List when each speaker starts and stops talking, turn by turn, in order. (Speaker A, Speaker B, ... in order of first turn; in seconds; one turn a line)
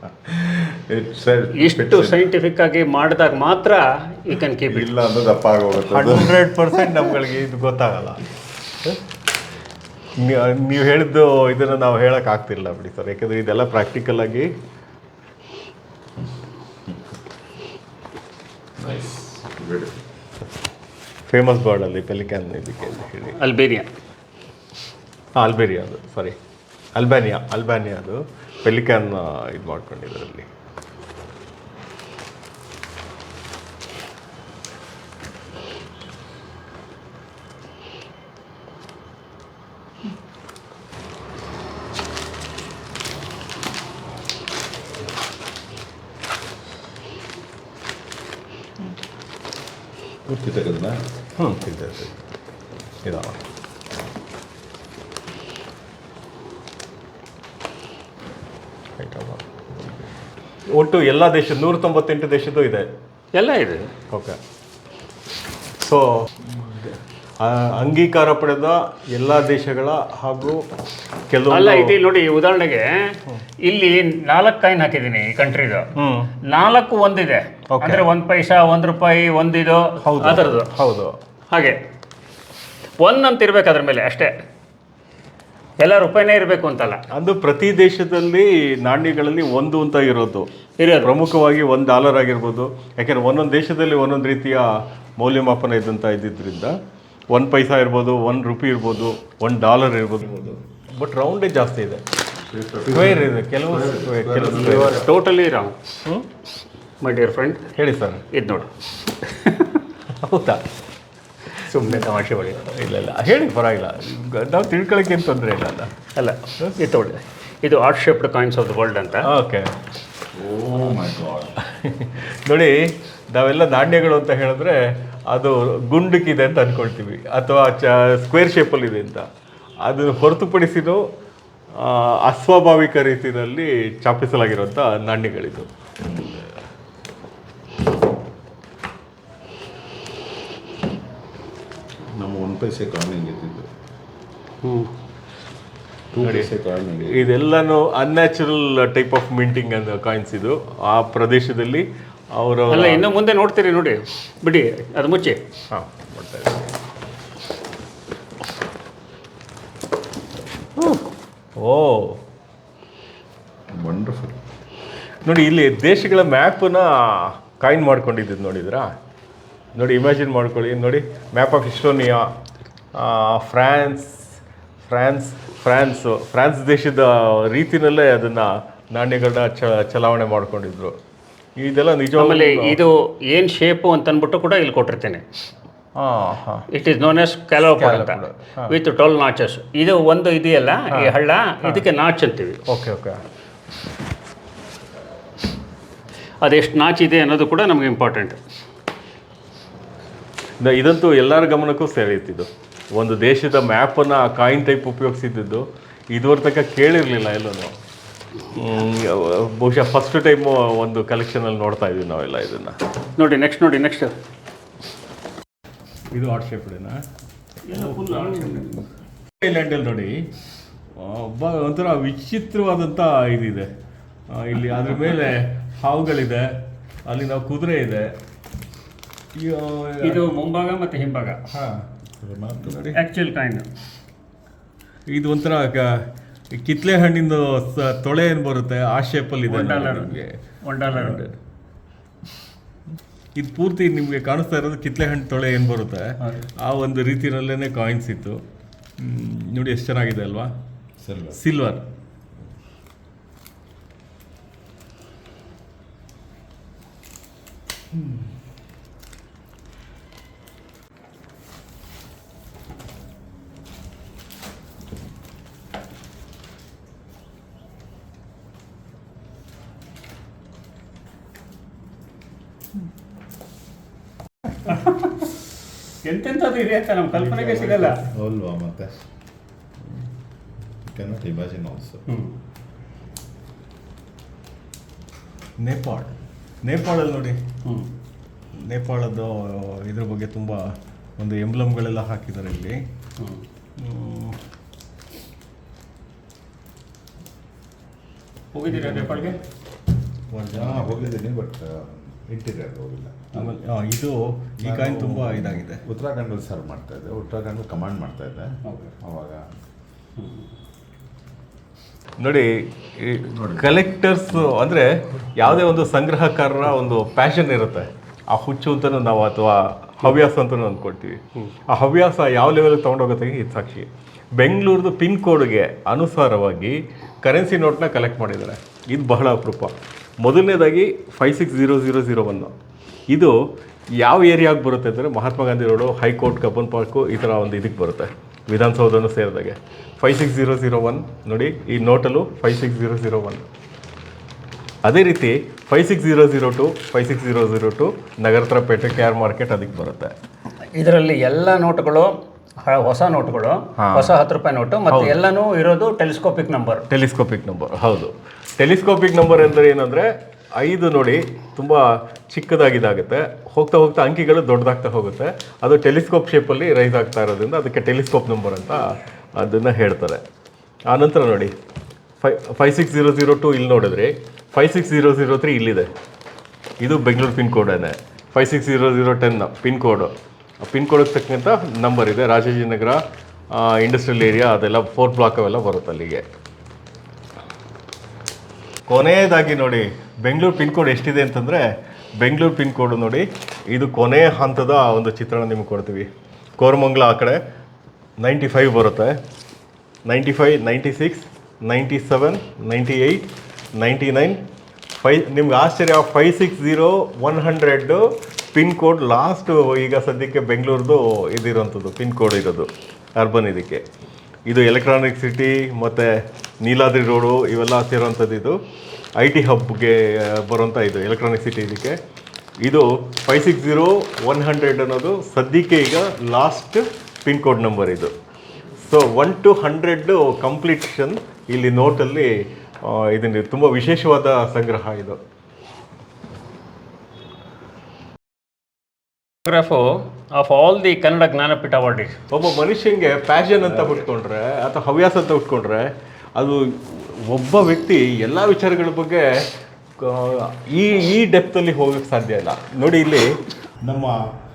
Speaker A: 0.3-2.2
Speaker B: 1.5-4.9
Speaker A: 4.7-6.9
Speaker C: 5.8-8.2
Speaker C: 10.2-14.5
Speaker A: 18.8-20.0
Speaker C: 21.3-23.4
Speaker B: 23.4-23.9
Speaker C: 25.4-26.4
Speaker C: 26.9-30.5
Speaker A: 50.2-51.0
Speaker C: 51.4-52.1
Speaker C: 53.0-53.4
Speaker C: 59.0-59.6
Speaker C: 60.7-62.9
Speaker B: 63.3-63.9
Speaker C: 64.1-64.4
Speaker C: 65.8-70.7
Speaker C: 71.3-72.0
Speaker B: 71.5-75.9
Speaker C: 75.9-76.3
Speaker B: 76.4-80.7
Speaker C: 77.7-78.1
Speaker C: 80.0-81.2
Speaker B: 81.5-81.8
Speaker B: 83.0-84.4
Speaker B: 85.8-87.0
Speaker C: 87.1-90.5
Speaker B: 90.8-91.1
Speaker C: 91.0-96.8
Speaker C: 97.3-102.0
Speaker A: 102.5-105.0
Speaker C: 102.8-105.0
Speaker B: 104.5-105.8
Speaker B: 107.0-107.7
Speaker C: 107.7-108.3
Speaker B: 108.3-109.8
Speaker C: 110.1-110.7
Speaker B: 111.6-112.6
Speaker C: 112.6-115.9
Speaker B: 116.1-119.3
Speaker C: 119.2-119.7
Speaker A: 120.3-121.5
Speaker C: 121.6-129.3
Speaker C: 129.8-131.0
Speaker C: 131.7-135.7
Speaker A: 142.1-143.7
Speaker B: 144.6-144.9
Speaker A: 146.1-147.3
Speaker C: 146.2-153.1
Speaker B: 152.7-155.4
Speaker C: 155.7-156.7
Speaker C: 160.8-161.0
Speaker C: 161.6-162.2
Speaker A: 163.7-164.4
Speaker C: 165.2-168.9
Speaker C: 169.7-172.3
Speaker C: 172.9-181.0
Speaker C: 181.6-182.8
Speaker B: 182.2-185.2
Speaker C: 185.9-186.7
Speaker B: 186.7-192.6
Speaker C: 187.6-188.8
Speaker C: 190.9-191.8
Speaker C: 192.7-193.2
Speaker B: 196.4-198.4
Speaker C: 200.6-207.7
Speaker C: 208.5-212.8
Speaker B: 213.2-214.1
Speaker C: 216.1-217.0
Speaker B: 217.7-218.8
Speaker C: 217.7-218.8
Speaker C: 219.4-220.3
Speaker C: 220.9-223.7
Speaker C: 224.3-228.1
Speaker C: 229.3-230.4
Speaker B: 230.0-231.4
Speaker C: 231.5-231.8
Speaker A: 232.2-232.8
Speaker C: 232.6-233.0
Speaker B: 232.9-233.7
Speaker C: 235.1-241.4
Speaker B: 239.5-241.3
Speaker C: 243.3-248.4
Speaker C: 249.0-250.6
Speaker A: 251.0-251.4
Speaker C: 251.3-251.8
Speaker B: 274.6-275.2
Speaker B: 276.0-278.0
Speaker A: 277.5-279.0
Speaker A: 280.8-282.0
Speaker B: 282.1-282.3
Speaker C: 285.6-287.4
Speaker C: 288.6-292.8
Speaker C: 293.8-294.4
Speaker B: 298.5-299.4
Speaker A: 298.8-299.4
Speaker C: 300.3-301.2
Speaker A: 300.5-303.6
Speaker C: 303.3-305.8
Speaker A: 304.6-309.5
Speaker B: 308.6-308.9
Speaker C: 312.2-332.5
Speaker C: 333.1-333.4
Speaker C: 333.9-343.5
Speaker C: 344.8-350.1
Speaker B: 350.7-356.9
Speaker C: 353.8-354.1
Speaker C: 354.9-355.2
Speaker C: 356.9-370.2
Speaker C: 370.9-371.5
Speaker C: 372.2-375.9
Speaker C: 376.8-386.2
Speaker C: 388.9-391.6
Speaker C: 392.2-397.4
Speaker C: 398.2-399.2
Speaker C: 400.1-404.4
Speaker C: 405.0-413.8
Speaker C: 414.5-418.6
Speaker C: 419.2-422.0
Speaker C: 422.6-428.1
Speaker C: 428.8-435.2
Speaker B: 439.4-442.2
Speaker C: 442.3-454.3